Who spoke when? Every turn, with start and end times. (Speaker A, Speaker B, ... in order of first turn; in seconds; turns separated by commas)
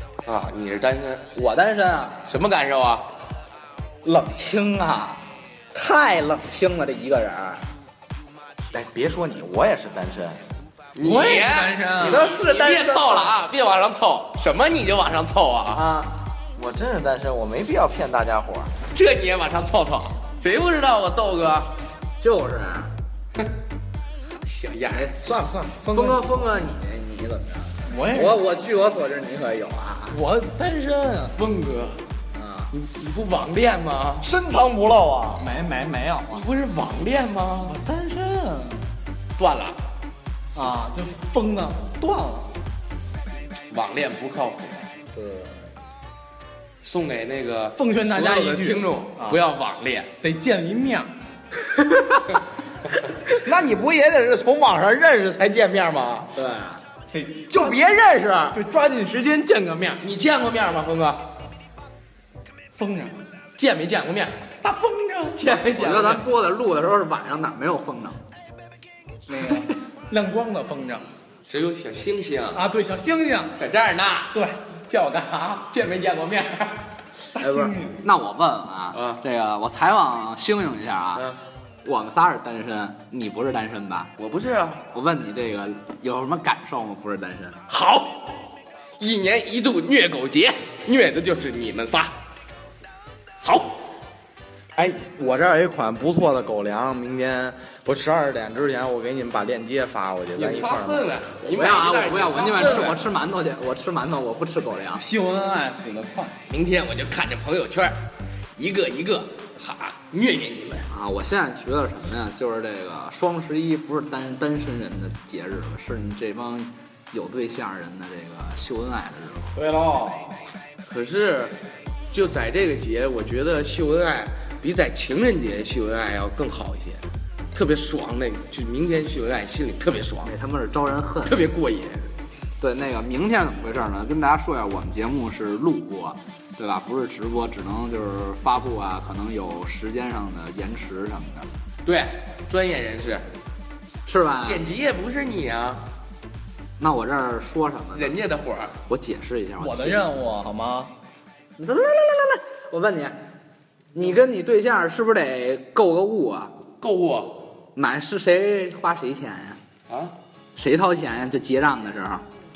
Speaker A: 0.2-1.2, Speaker B: 1.3-2.2, Speaker A: 2.2-3.1, Speaker B: 4.0-5.2, Speaker B: 5.7-7.6, Speaker C: 8.7-10.4, Speaker A: 10.9-15.8, Speaker D: 11.0-12.3, Speaker B: 12.0-13.3, Speaker B: 15.7-16.2, Speaker C: 16.6-18.7, Speaker A: 18.9-21.7, Speaker B: 22.2-22.9, Speaker A: 24.4-25.2, Speaker B: 25.0-30.2, Speaker C: 25.3-26.3, Speaker D: 27.9-28.4, Speaker D: 30.1-31.3, Speaker A: 31.4-32.0, Speaker B: 32.3-32.7, Speaker A: 32.7-34.3, Speaker C: 34.2-35.4, Speaker D: 35.4-36.4, Speaker A: 36.3-37.8, Speaker D: 37.6-38.9, Speaker A: 39.4-39.8, Speaker D: 40.5-42.5, Speaker A: 43.7-44.8, Speaker B: 45.1-45.6, Speaker A: 46.8-50.1, Speaker D: 47.8-49.4, Speaker D: 50.2-51.1, Speaker C: 53.4-56.3, Speaker B: 56.3-56.8, Speaker D: 57.1-57.8, Speaker C: 57.5-58.6, Speaker D: 58.5-60.0, Speaker A: 60.0-61.2, Speaker D: 62.7-63.2, Speaker A: 63.6-64.3, Speaker D: 64.6-65.6, Speaker A: 65.3-66.2, Speaker B: 65.6-68.2, Speaker D: 69.3-71.1, Speaker A: 71.5-72.7, Speaker D: 72.5-73.5, Speaker A: 73.6-76.8, Speaker D: 77.3-78.0, Speaker B: 77.4-81.2, Speaker A: 78.9-79.2, Speaker B: 81.8-84.1, Speaker A: 84.2-84.8, Speaker B: 84.9-87.6, Speaker A: 87.7-88.3, Speaker A: 89.0-92.1, Speaker A: 93.4-93.8, Speaker C: 94.7-101.1, Speaker A: 100.3-103.0, Speaker B: 101.4-105.0, Speaker D: 105.0-106.3, Speaker A: 106.5-108.0, Speaker A: 108.6-110.9, Speaker B: 110.9-119.6, Speaker C: 119.5-120.3, Speaker A: 120.8-121.5, Speaker A: 122.1-127.0, Speaker A: 127.5-130.3, Speaker B: 130.2-131.5, Speaker A: 131.2-132.0, Speaker B: 132.6-141.5, Speaker A: 141.8-143.2, Speaker B: 144.1-144.6, Speaker A: 144.4-145.8, Speaker B: 146.8-148.1, Speaker A: 147.9-148.7, Speaker B: 148.9-150.0, Speaker D: 149.6-150.9, Speaker B: 151.6-153.2, Speaker B: 153.9-156.5, Speaker A: 156.8-157.4, Speaker B: 157.8-159.6, Speaker A: 159.9-160.1, Speaker B: 160.6-162.2